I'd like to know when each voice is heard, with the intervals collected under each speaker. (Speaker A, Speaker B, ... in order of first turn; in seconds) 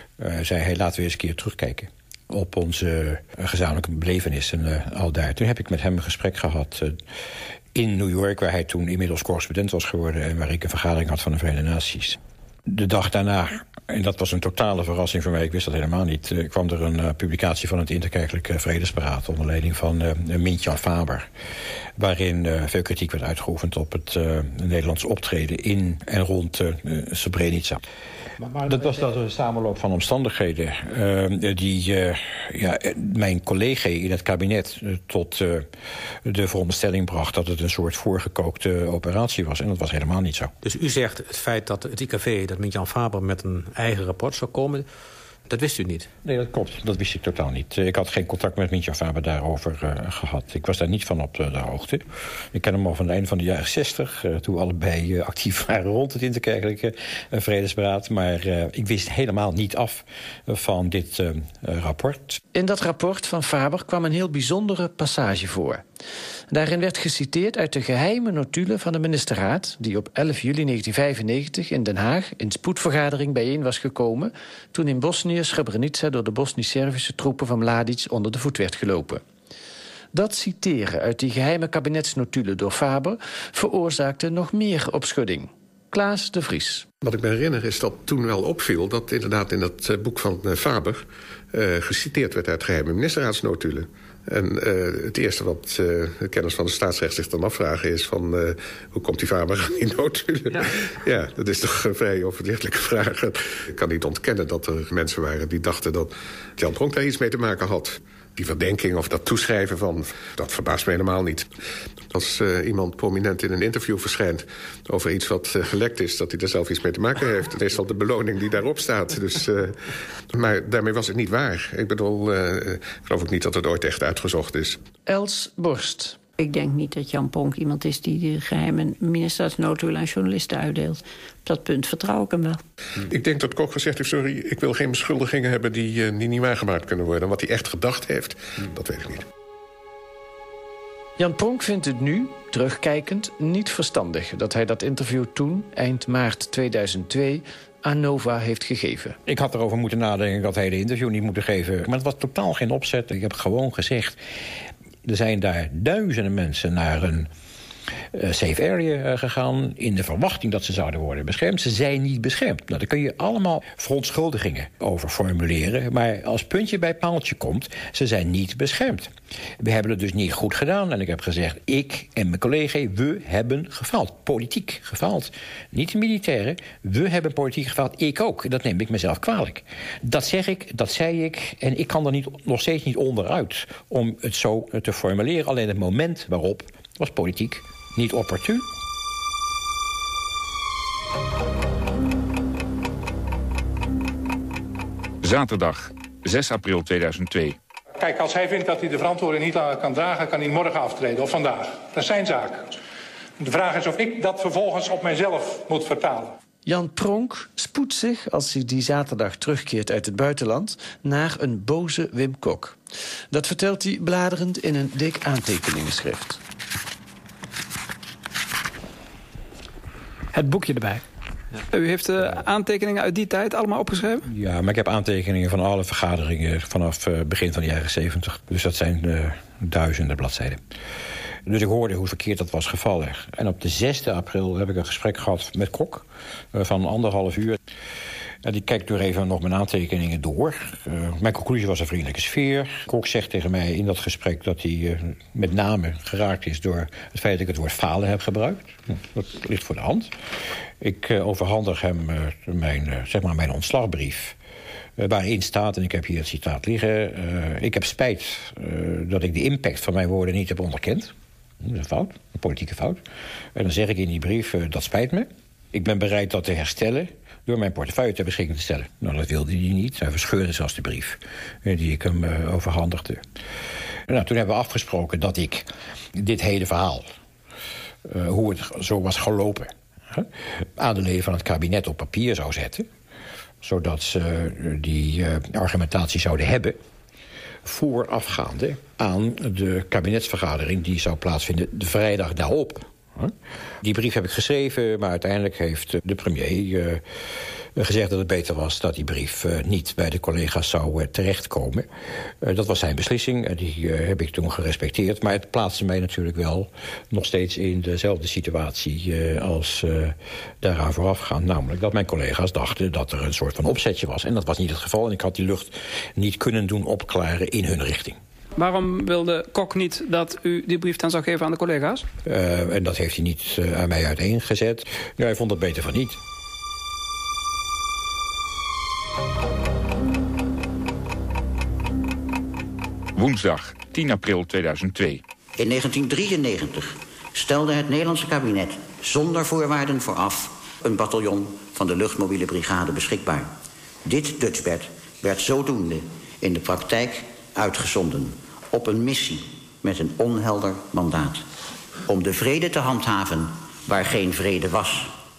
Speaker A: 0.2-7.0, 7.7-21.3, 22.0-27.8, 28.6-35.7, 36.2-40.5, 46.2-62.4, 149.2-154.2, 155.0-157.3, 158.1-188.7, 224.2-230.6, 231.4-237.6, 238.4-250.1, 250.8-254.4, 255.0-263.0, 263.5-273.2, 274.1-277.1, 278.0-282.9, 283.6-286.8, 287.6-297.0, 297.6-318.2, 322.2-326.2
Speaker B: 40.6-44.9, 45.5-46.1
Speaker C: 62.5-65.8, 66.5-79.2, 80.1-86.8, 125.0-126.2, 141.2-149.2, 206.6-212.8, 213.3-216.4
Speaker D: 87.0-111.5, 112.1-124.8, 133.0-139.2
Speaker E: 126.4-132.6
Speaker F: 195.2-197.6, 333.1-335.2
Speaker G: 197.9-202.8, 203.4-206.3
Speaker H: 220.3-221.0, 221.7-224.3, 318.6-322.1
Speaker I: 335.6-343.5, 344.0-351.4, 352.1-355.1